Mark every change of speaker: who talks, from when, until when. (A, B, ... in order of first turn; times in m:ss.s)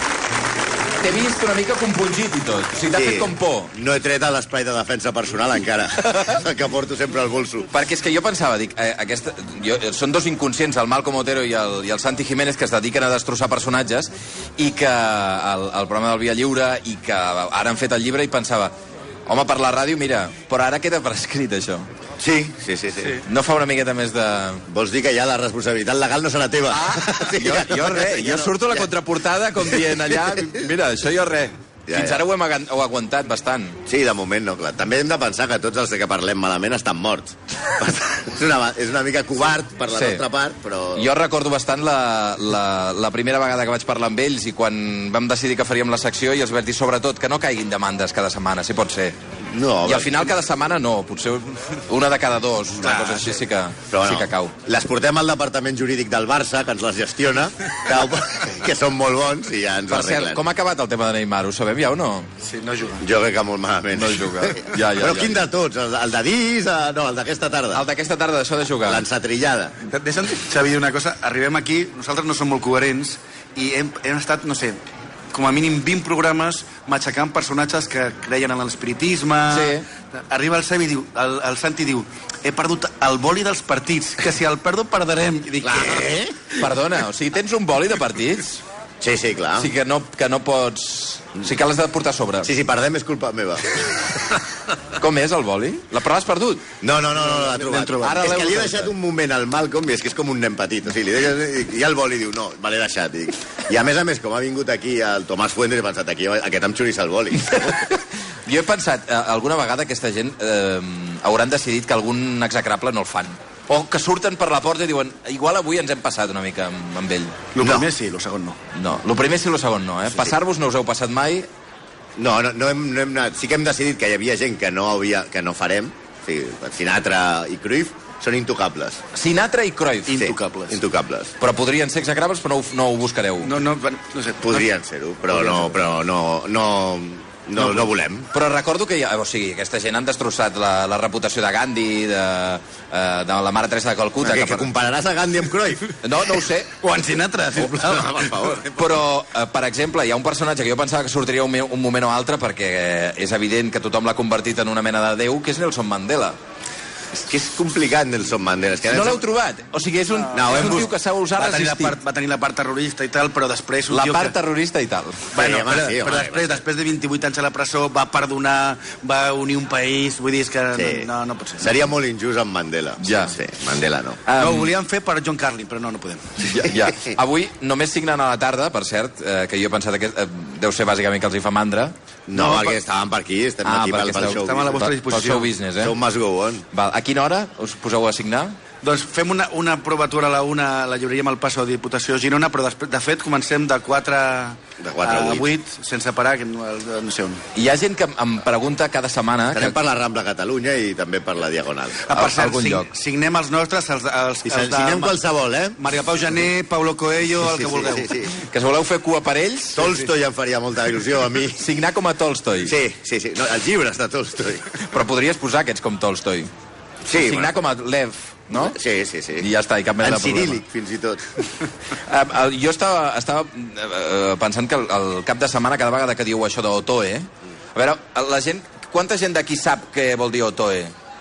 0:01.0-0:03.7 A
0:02.9-0:07.7 B
0:07.7-0:18.7 A
0:19.2-0:21.9 A
0:22.2-0:23.2 B
0:23.2-0:24.6 A
0:24.7-0:28.9 B
0:26.7-0:33.8 A
0:30.1-0:30.4 B
0:31.9-0:32.2 B
0:33.8-0:41.1 B
0:39.9-0:40.2 A
0:40.9-0:49.2 A
0:49.4-0:50.3 B
0:49.8-0:54.5 A
0:52.8-0:53.4 C
0:53.9-1:00.4 B
0:59.9-1:02.3 A
1:02.4-1:03.0 C
1:03.0-1:07.8 B
1:03.9-1:05.4 A
1:07.7-1:09.0 A
1:08.8-1:09.8 B
1:09.8-1:26.2 C
1:19.5-1:19.8 A
1:25.6-1:26.5 B
1:26.6-1:28.6 A
1:29.0-1:29.7 B
1:29.6-1:32.5 A
1:32.4-1:34.0 B
1:35.0-1:36.6 A
1:36.8-1:47.8 B
1:37.2-1:38.5 C
1:38.0-1:38.9 A
1:47.4-1:57.5 A
1:57.5-1:58.6 C
1:57.6-1:57.9 B
1:58.7-2:01.5 A
2:00.1-2:00.3 B
2:02.2-2:09.0 B
2:09.1-2:10.2 A
2:10.1-2:10.8 C
2:10.2-2:11.3 B
2:11.4-2:13.6 A
2:13.4-2:14.7 C
2:14.4-2:18.3 B
2:15.3-2:15.8 C
2:17.6-2:17.9 C
2:18.3-2:24.7 A
2:24.2-2:26.0 B
2:26.0-2:26.7 A
2:26.8-2:28.6 C
2:27.7-2:28.9 B
2:28.7-2:36.4 A
2:37.1-2:39.2 B
2:38.9-2:42.0 A
2:40.3-2:40.9 B
2:40.4-2:44.3 C
2:43.9-2:45.3 A
2:45.3-2:51.8 C
2:45.4-2:46.6 B
2:50.7-2:51.1 B
2:51.6-2:54.2 B
2:53.0-2:53.3 A
2:54.2-2:54.7 A
2:54.4-2:56.4 C
2:56.4-3:01.9 A
2:56.6-2:57.2 B
3:02.3-3:04.9 B
3:02.3-3:02.8 C
3:03.6-3:06.0 A
3:04.1-3:05.5 C
3:05.8-3:06.6 B
3:06.7-3:08.6 A
3:08.8-3:17.4 C
3:14.8-3:15.5 B
3:17.5-3:19.8 A
3:19.5-3:22.1 B
3:22.0-3:25.1 C
3:22.1-3:22.9 A
3:24.4-3:25.8 B
3:25.8-3:28.2 C
3:27.4-3:28.4 B
3:28.3-3:30.0 A
3:29.8-3:31.6 B
3:31.6-3:32.7 A
3:32.6-3:34.7 B
3:34.9-3:36.5 A
3:37.1-3:37.5 B
3:37.1-3:38.8 A
3:38.5-3:39.5 B
3:39.4-3:40.6 A
3:40.0-3:41.5 B
3:42.1-3:50.9 A